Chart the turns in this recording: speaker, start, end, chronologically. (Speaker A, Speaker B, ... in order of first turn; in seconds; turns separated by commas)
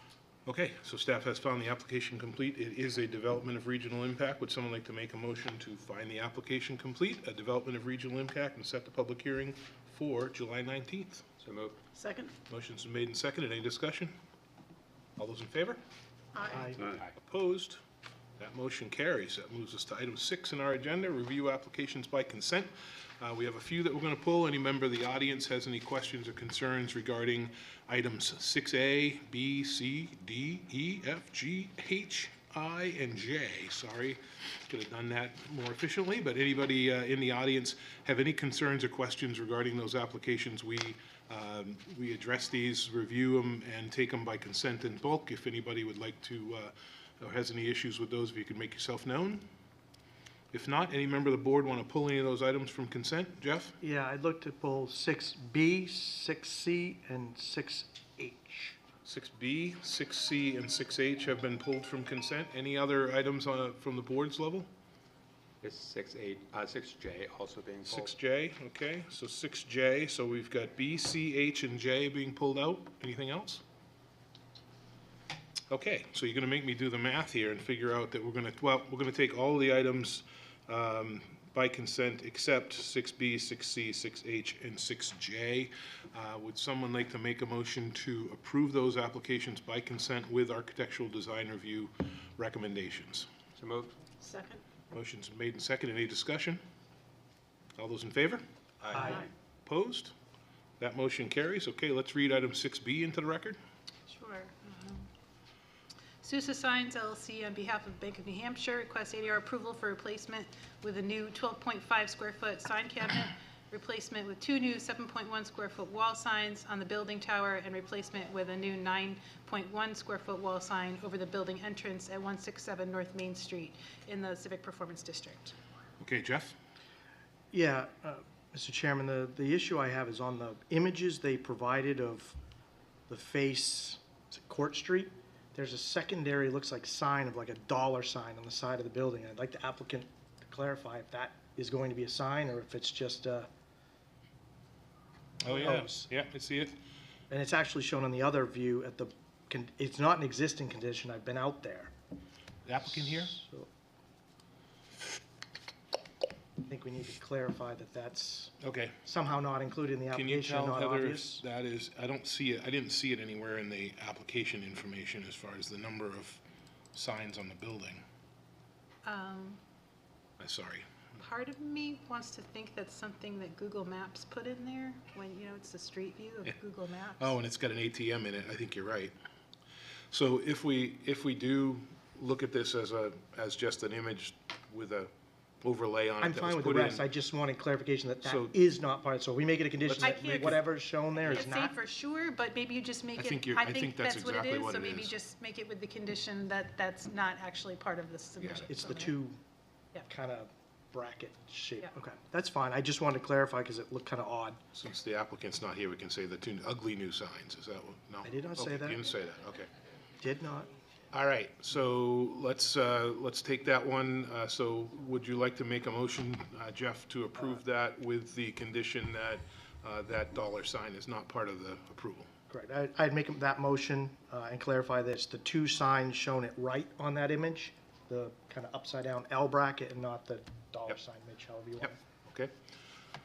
Speaker A: 0.5-11.3, Speaker B: 11.4-11.8, Speaker C: 11.9-12.3, Speaker A: 12.5-14.1, Speaker A: 15.2-15.8, Speaker D: 16.4-16.8, Speaker B: 16.8-17.1, Speaker A: 17.1-17.8, Speaker A: 18.4-49.5, Speaker A: 50.5-53.7, Speaker D: 53.8-58.8, Speaker A: 59.0-64.7, Speaker B: 65.6-68.1, Speaker A: 67.9-73.6, Speaker A: 75.7-93.3, Speaker B: 93.5-93.9, Speaker C: 94.2-94.6, Speaker A: 94.9-96.6, Speaker A: 97.8-100.1, Speaker D: 98.9-99.3, Speaker C: 99.0-99.3, Speaker A: 100.8-103.6, Speaker C: 104.1-105.1, Speaker C: 106.2-125.5, Speaker A: 126.0-126.5, Speaker D: 127.5-132.3, Speaker D: 133.1-143.5, Speaker A: 145.4-146.8, Speaker D: 145.5-146.1, Speaker D: 147.3-151.9, Speaker A: 152.7-153.3, Speaker D: 152.9-153.7, Speaker D: 156.6-158.5, Speaker A: 158.6-159.0, Speaker D: 159.0-161.4, Speaker A: 160.1-166.4, Speaker A: 166.9-168.0, Speaker C: 169.0-169.6, Speaker A: 170.4-170.9, Speaker C: 171.2-177.3, Speaker A: 177.2-179.1, Speaker A: 180.1-185.1, Speaker A: 185.6-187.0, Speaker D: 186.2-191.8, Speaker A: 188.2-188.5, Speaker A: 189.8-190.6, Speaker C: 190.0-190.7, Speaker C: 191.2-199.1, Speaker A: 193.2-195.2, Speaker A: 198.4-198.7, Speaker D: 198.7-199.4, Speaker D: 200.1-204.6, Speaker A: 204.7-209.7, Speaker D: 208.2-209.0, Speaker D: 210.2-210.7, Speaker A: 211.1-222.3, Speaker D: 222.5-232.0, Speaker A: 231.8-232.5